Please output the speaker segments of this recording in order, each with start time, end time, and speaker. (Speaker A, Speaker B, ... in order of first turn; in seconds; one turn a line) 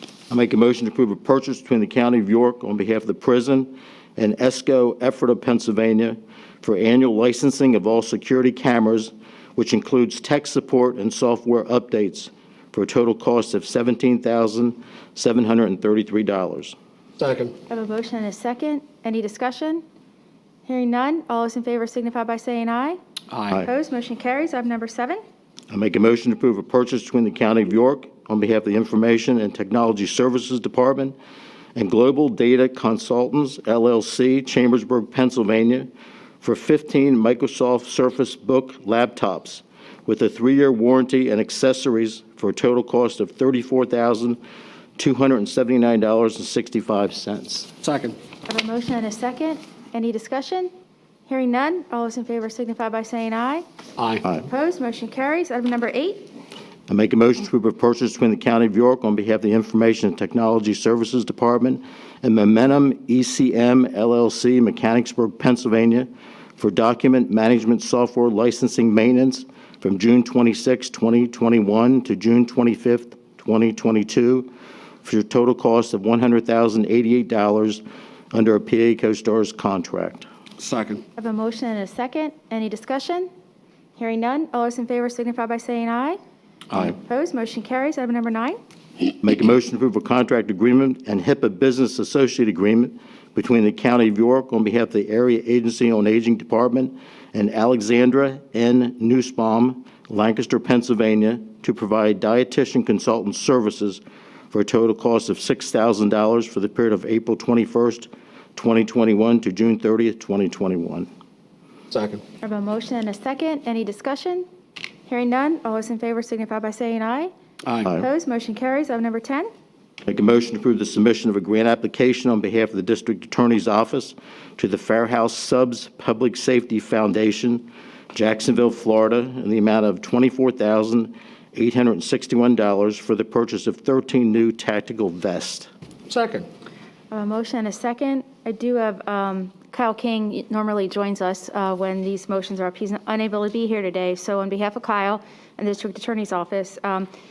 Speaker A: 0.3-16.8
Speaker B: 17.2-17.6
Speaker C: 17.7-19.8
Speaker C: 20.7-23.0
Speaker B: 23.3-23.6
Speaker C: 23.6-25.2
Speaker A: 25.7-31.1
Speaker A: 31.8-35.9
Speaker A: 36.4-44.4
Speaker A: 45.0-47.7
Speaker B: 47.8-48.2
Speaker C: 48.5-50.7
Speaker C: 51.3-53.6
Speaker B: 54.0-54.2
Speaker C: 54.3-56.3
Speaker A: 56.9-74.5
Speaker A: 75.0-80.3
Speaker B: 80.6-81.0
Speaker C: 81.2-83.3
Speaker C: 84.0-86.2
Speaker C: 86.8-88.6
Speaker A: 89.2-104.0
Speaker A: 104.5-111.1
Speaker B: 111.9-112.2
Speaker C: 112.4-114.5
Speaker C: 115.1-117.3
Speaker C: 117.8-119.5
Speaker A: 120.1-135.7
Speaker B: 136.1-136.5
Speaker C: 137.1-147.1